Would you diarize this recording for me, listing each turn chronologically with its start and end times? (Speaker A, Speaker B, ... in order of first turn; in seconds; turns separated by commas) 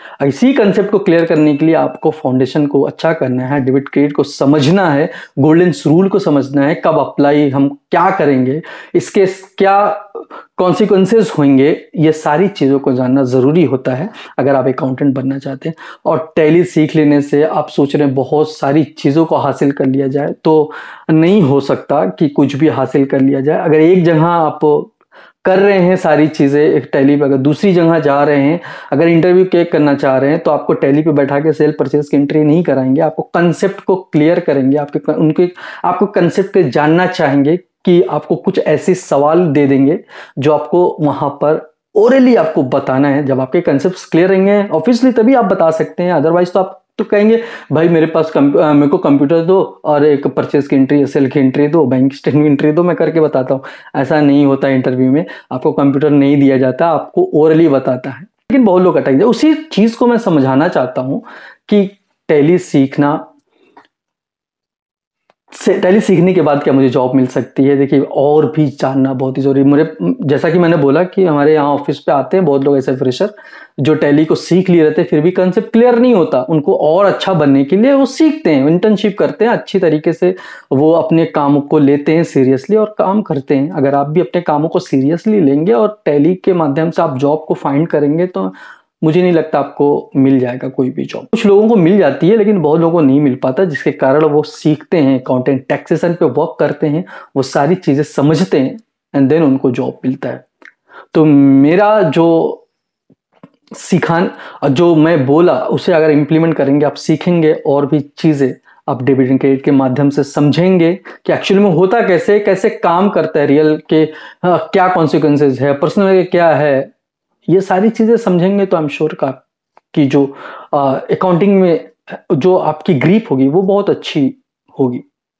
Speaker A: 0.2-24.9, Speaker A: 25.4-63.3, Speaker A: 65.5-100.5, Speaker A: 101.1-102.6, Speaker A: 103.7-116.9, Speaker A: 117.5-119.4, Speaker A: 119.9-125.0